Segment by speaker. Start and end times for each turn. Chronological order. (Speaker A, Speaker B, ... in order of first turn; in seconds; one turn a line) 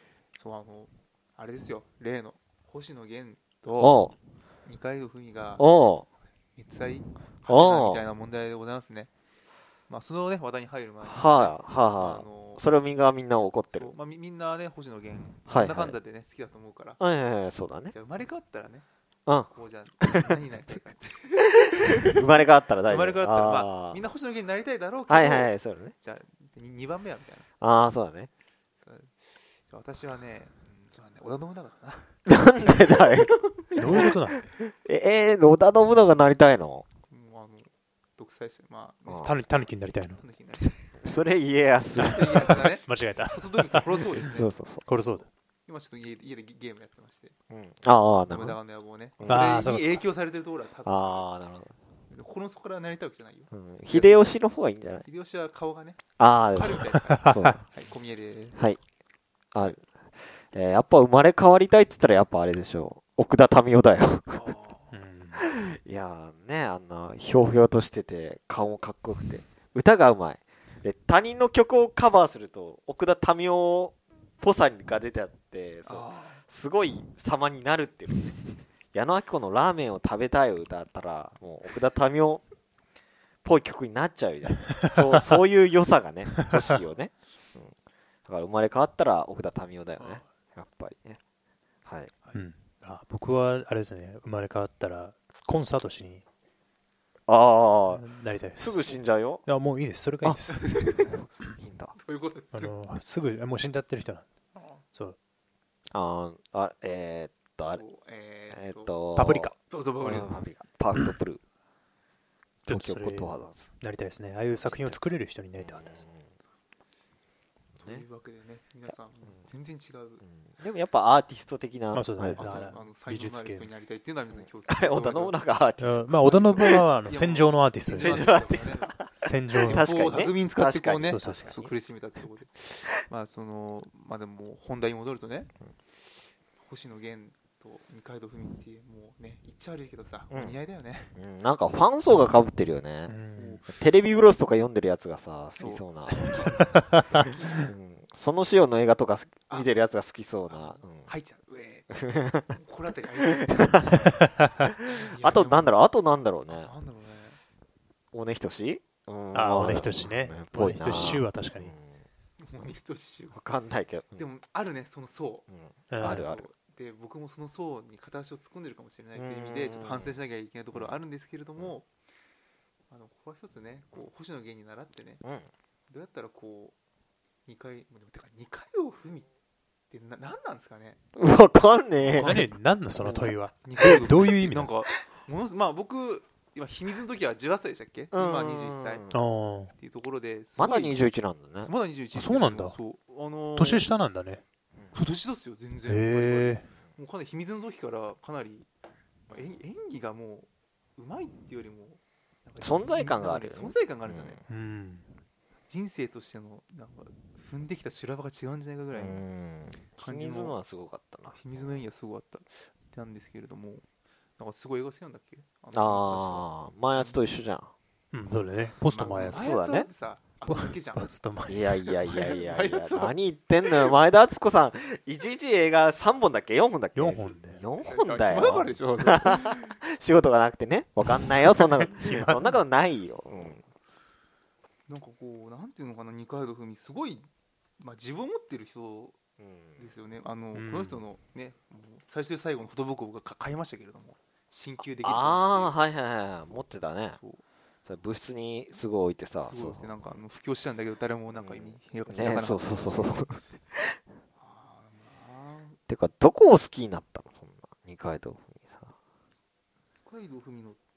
Speaker A: 0.3-4.0
Speaker B: 3.8-4.1
Speaker A: 4.7-5.7
Speaker B: 5.6-6.1
Speaker A: 6.6-9.1
Speaker B: 7.5-8.0
Speaker A: 9.9-12.6
Speaker B: 11.0-13.9
Speaker A: 13.3-17.0
Speaker B: 15.5-16.0
Speaker B: 17.0-17.9
Speaker A: 17.9-18.9
Speaker A: 19.5-22.2
Speaker B: 20.0-20.4
Speaker B: 21.9-24.0
Speaker A: 22.9-27.5
Speaker B: 25.1-25.9
Speaker B: 27.6-28.3
Speaker A: 28.8-34.1
Speaker B: 32.3-36.9
Speaker C: 33.8-34.4
Speaker A: 37.1-41.0
Speaker B: 39.1-39.4
Speaker C: 39.2-40.2
Speaker B: 41.0-42.7
Speaker A: 42.0-44.5
Speaker C: 42.9-44.2
Speaker B: 44.2-44.9
Speaker C: 44.9-45.3
Speaker A: 45.7-47.4
Speaker B: 47.5-48.6
Speaker A: 48.3-51.3
Speaker B: 49.2-49.6
Speaker C: 49.2-50.0
Speaker B: 50.9-51.7
Speaker A: 52.1-54.3
Speaker B: 53.5-55.0
Speaker A: 55.0-58.6
Speaker B: 56.2-57.6
Speaker B: 59.5-59.9
Speaker B: 60.5-64.5
Speaker A: 64.3-64.9
Speaker C: 64.9-65.4
Speaker B: 65.4-78.4
Speaker A: 75.8-76.4
Speaker B: 78.9-82.4
Speaker B: 83.4-87.7
Speaker B: 88.3-91.2
Speaker A: 90.0-90.2
Speaker B: 91.9-92.1
Speaker C: 92.3-96.2
Speaker B: 97.3-98.0
Speaker C: 97.9-100.6
Speaker B: 98.5-99.5
Speaker B: 100.2-100.5
Speaker A: 100.5-101.2
Speaker B: 101.1-101.9
Speaker A: 102.0-102.8
Speaker C: 102.5-104.2
Speaker A: 104.5-104.8
Speaker B: 105.9-107.8
Speaker A: 107.7-109.0
Speaker B: 108.5-111.4
Speaker C: 109.2-109.5
Speaker A: 109.6-110.5
Speaker C: 112.7-116.0
Speaker B: 112.7-113.7
Speaker B: 114.7-115.0
Speaker B: 115.6-116.3
Speaker A: 117.8-120.2
Speaker B: 118.9-119.4
Speaker B: 120.2-122.7
Speaker C: 121.9-123.7
Speaker A: 122.3-125.5
Speaker B: 124.3-126.8
Speaker C: 125.8-128.3
Speaker A: 126.2-135.5
Speaker B: 127.9-131.7
Speaker C: 129.2-130.3
Speaker C: 131.0-131.5
Speaker A: 136.6-141.2
Speaker B: 140.3-140.6
Speaker B: 141.2-146.5
Speaker C: 143.1-143.6
Speaker A: 143.3-143.7
Speaker A: 145.6-147.7
Speaker C: 146.7-147.7
Speaker B: 147.1-151.1
Speaker A: 150.5-154.1
Speaker B: 151.9-152.6
Speaker B: 153.3-156.7
Speaker C: 154.1-154.6
Speaker A: 154.8-155.8
Speaker A: 156.5-157.4
Speaker B: 158.1-162.0
Speaker C: 159.3-161.7
Speaker A: 162.4-163.4
Speaker B: 163.3-164.2
Speaker A: 164.2-165.5
Speaker B: 165.5-166.5
Speaker C: 165.9-166.3
Speaker A: 166.0-171.9
Speaker B: 169.2-170.2
Speaker B: 170.7-171.0
Speaker A: 172.9-175.2
Speaker A: 175.9-176.8
Speaker A: 177.5-179.3
Speaker A: 179.9-181.0
Speaker B: 181.2-182.4
Speaker A: 182.0-189.1
Speaker C: 182.2-184.7
Speaker B: 183.0-183.3
Speaker B: 188.1-189.2
Speaker C: 189.1-189.7
Speaker A: 189.7-191.0
Speaker B: 190.6-191.7
Speaker A: 191.6-193.9
Speaker C: 192.1-192.8
Speaker C: 193.6-194.4
Speaker A: 194.9-198.7
Speaker C: 195.9-196.7
Speaker B: 199.3-199.6
Speaker A: 199.3-204.4
Speaker B: 202.6-204.4
Speaker C: 204.5-205.1
Speaker A: 205.7-209.2
Speaker B: 208.9-211.8
Speaker A: 210.0-210.6
Speaker A: 211.3-213.9
Speaker A: 214.4-217.2
Speaker B: 215.7-217.7
Speaker C: 218.1-219.5
Speaker A: 218.9-221.1
Speaker B: 219.3-219.9
Speaker C: 220.5-221.9
Speaker B: 221.5-233.6
Speaker A: 222.1-223.2
Speaker A: 223.7-223.9
Speaker C: 226.9-227.6
Speaker A: 227.8-229.8
Speaker C: 231.1-232.6
Speaker A: 234.9-237.3
Speaker A: 237.8-239.2
Speaker B: 239.4-239.9
Speaker A: 239.8-245.8
Speaker C: 240.5-241.0
Speaker B: 245.0-247.2
Speaker A: 246.4-247.4
Speaker B: 247.9-250.2
Speaker A: 249.4-253.3
Speaker B: 251.3-254.0
Speaker A: 254.4-255.8
Speaker B: 255.9-258.9
Speaker A: 260.0-260.8